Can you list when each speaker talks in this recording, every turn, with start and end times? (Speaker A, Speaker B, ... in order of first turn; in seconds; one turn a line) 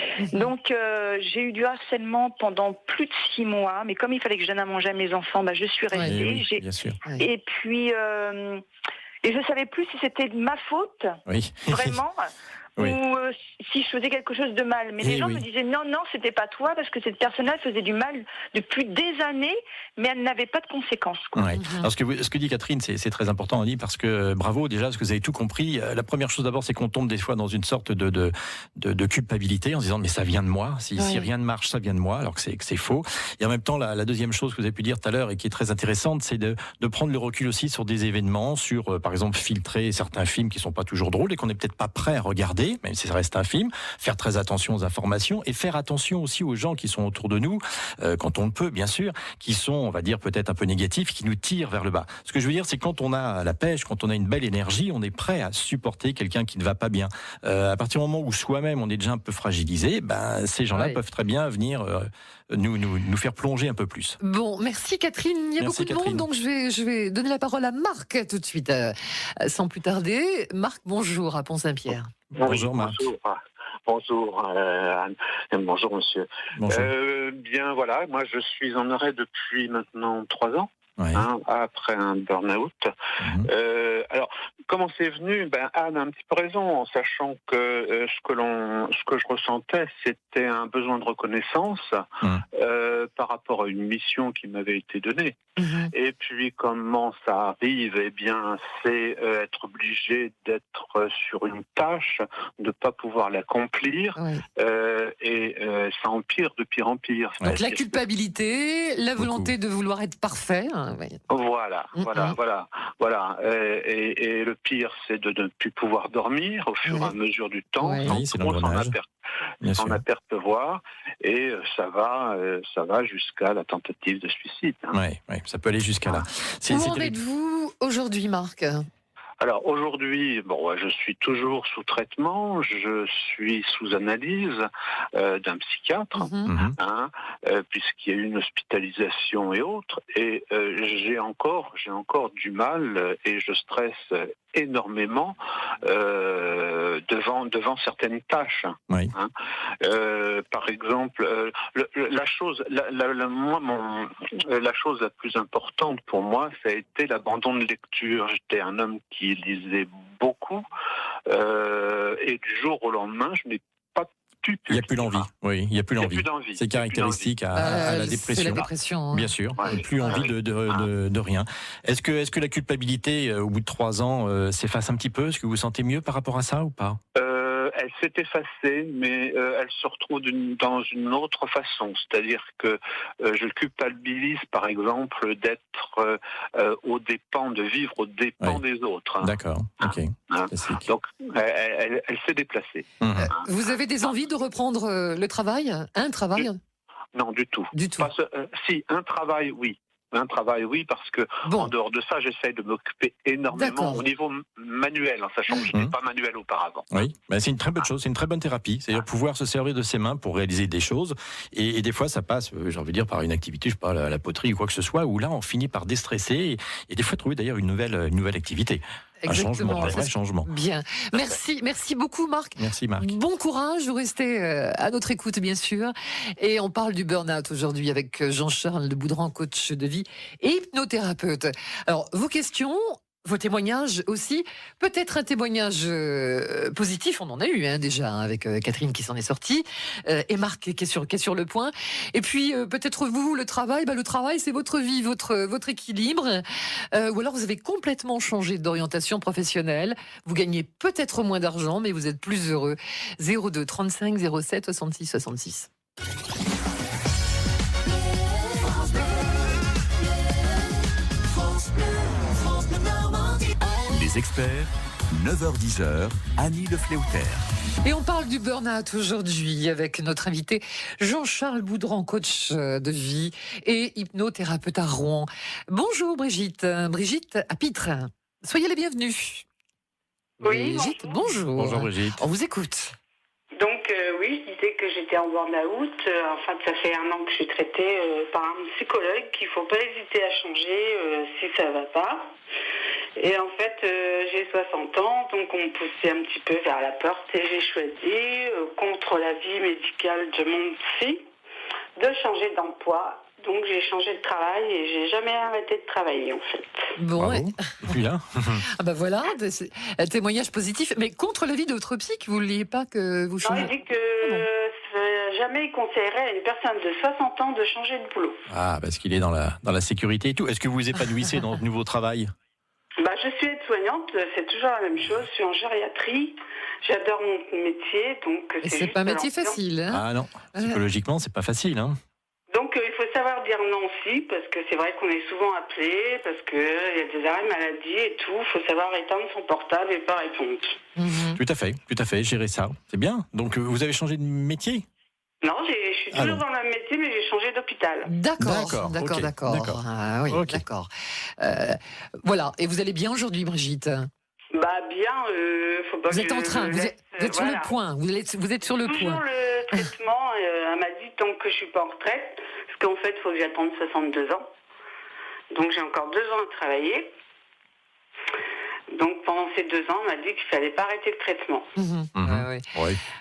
Speaker A: 0.2-0.5
Speaker B: 0.3-8.6
Speaker A: 5.9-6.2
Speaker C: 6.0-7.0
Speaker B: 9.2-11.1
Speaker C: 11.3-12.0
Speaker B: 11.7-12.2
Speaker B: 12.8-21.5
Speaker C: 15.0-15.4
Speaker C: 21.4-64.2
Speaker A: 21.6-21.9
Speaker A: 31.0-31.3
Speaker A: 60.7-61.0
Speaker A: 64.2-72.1
Speaker C: 65.6-66.3
Speaker D: 72.4-82.9
Speaker C: 72.4-73.0
Speaker C: 76.6-76.9
Speaker C: 81.0-81.2
Speaker C: 83.2-83.5
Speaker D: 83.4-92.0
Speaker D: 92.6-95.4
Speaker A: 95.6-95.9
Speaker D: 95.9-108.0
Speaker A: 104.2-104.4
Speaker A: 107.4-111.2
Speaker C: 109.2-109.5
Speaker D: 111.3-119.1
Speaker A: 112.0-112.3
Speaker A: 116.8-117.1
Speaker A: 117.8-118.1
Speaker C: 118.0-119.0
Speaker C: 119.6-120.0
Speaker D: 119.7-125.0
Speaker C: 124.9-127.2
Speaker A: 126.7-128.8
Speaker D: 129.4-160.7
Speaker A: 136.2-136.5
Speaker C: 136.5-136.8
Speaker D: 161.3-165.3
Speaker C: 164.7-177.0
Speaker D: 166.0-167.6
Speaker A: 167.5-169.5
Speaker D: 169.5-170.9
Speaker D: 177.2-194.2
Speaker C: 189.2-190.8
Speaker C: 193.0-193.3
Speaker A: 193.2-196.6
Speaker D: 197.1-207.1
Speaker A: 197.7-198.1
Speaker A: 201.4-201.7
Speaker A: 203.5-204.0
Speaker C: 206.9-220.5
Speaker A: 219.2-255.7
Speaker C: 222.6-223.2
Speaker E: 263.9-267.5
Speaker A: 267.8-279.4
Speaker A: 280.4-283.0
Speaker F: 280.4-281.4
Speaker C: 281.5-282.2
Speaker F: 283.6-292.2
Speaker F: 293.2-301.2
Speaker F: 302.0-306.6
Speaker A: 307.0-307.9
Speaker C: 307.2-308.6
Speaker A: 308.8-313.7
Speaker F: 313.4-318.4
Speaker C: 318.5-322.3
Speaker F: 323.0-329.6
Speaker A: 328.6-330.8
Speaker C: 329.9-332.0
Speaker F: 332.5-340.8
Speaker A: 341.0-341.4
Speaker C: 341.3-344.9
Speaker F: 345.4-348.1
Speaker C: 346.1-346.4
Speaker A: 348.1-354.1
Speaker C: 348.4-350.6
Speaker F: 354.5-357.7
Speaker A: 356.1-359.2
Speaker F: 358.6-364.5
Speaker F: 365.5-367.1
Speaker F: 368.9-371.7
Speaker A: 371.8-372.6
Speaker C: 372.1-373.0